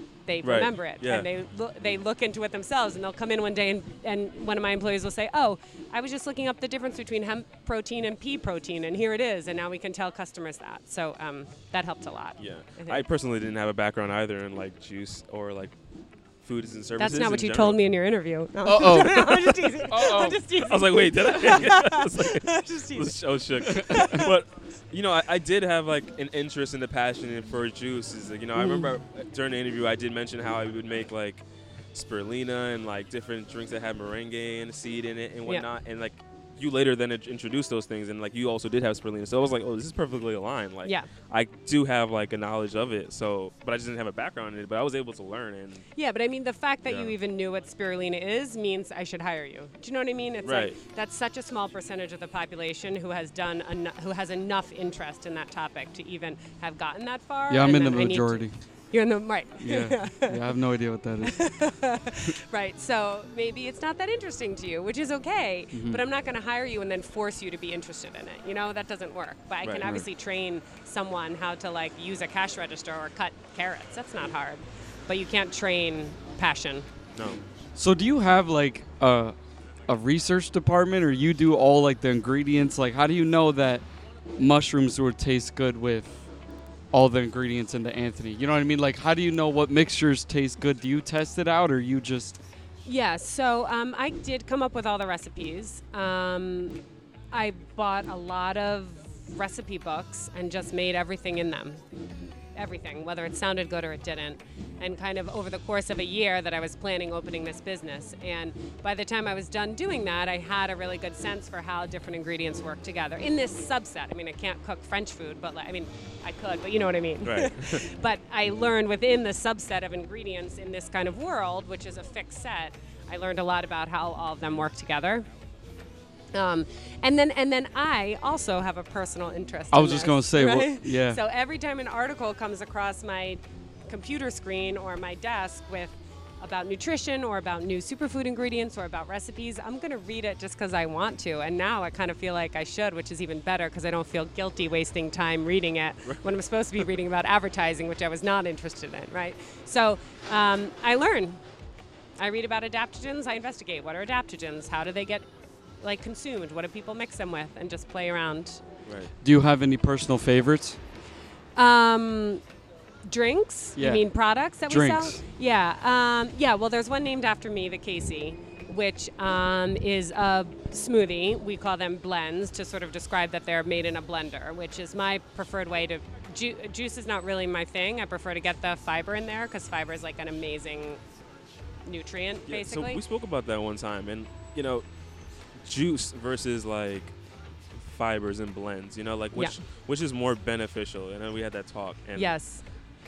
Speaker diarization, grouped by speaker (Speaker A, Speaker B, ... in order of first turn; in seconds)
Speaker A: 0.2-13.1, 17.0-24.3, 28.6-28.9, 40.8-41.1, 45.9-60.4, 61.2-76.9, 92.8-96.8, 97.3-101.8, 102.5-125.3, 126.3-151.4, 152.2-158.6, 161.6-162.4, 163.1-181.0, 181.8-183.0, 189.3-189.6, 192.2-192.6
Speaker B: 0.4-1.3, 12.4-15.8, 16.4-17.8, 20.7-45.9, 46.9-47.1, 50.4-50.8, 77.1-77.4, 117.2-117.8, 158.8-159.1, 182.5-184.9, 185.5-187.2, 187.7-192.4
Speaker C: 18.6-20.4, 57.5-58.8, 59.6-61.8, 65.7-66.0, 77.7-92.4, 129.7-131.2, 159.2-160.8, 163.8-165.2